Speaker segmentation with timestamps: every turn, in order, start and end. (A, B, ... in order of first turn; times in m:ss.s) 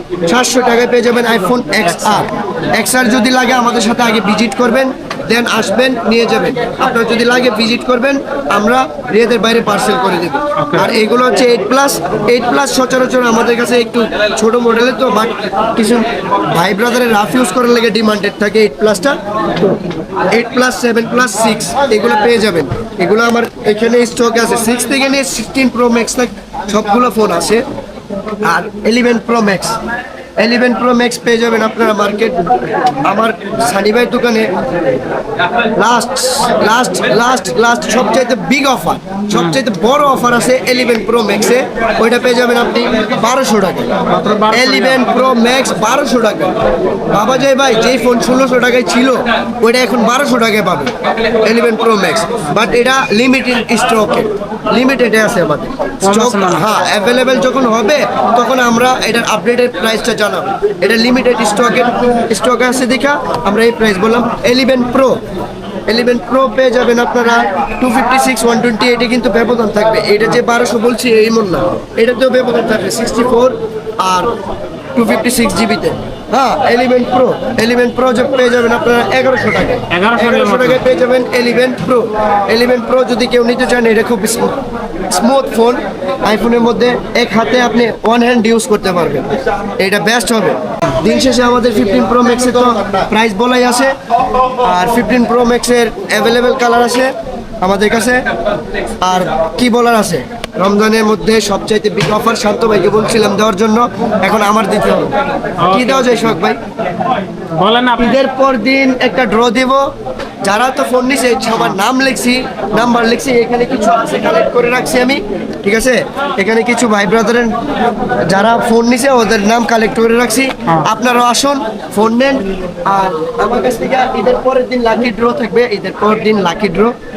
0:00.2-0:19.7 A
0:01.8-0:02.2 B
0:10.6-0:10.9 B
0:20.3-0:27.6 A
0:28.4-0:29.8 A
0:30.4-0:32.4 A
0:33.0-0:34.5 A
0:35.8-0:43.9 A
0:39.3-0:39.6 B
0:44.1-0:45.1 B
0:44.5-0:46.5 A
0:47.1-1:05.2 A
0:56.0-0:56.6 B
1:05.9-1:14.3 A
1:15.0-1:24.5 A
1:19.9-1:20.8 B
1:25.1-1:33.9 A
1:34.6-1:38.2 A
1:39.0-1:45.1 A
1:45.6-1:46.4 B
1:45.7-1:46.6 A
1:47.6-1:48.2 B
1:48.0-1:49.9 A
1:50.4-1:57.5 A
1:58.3-2:06.9 A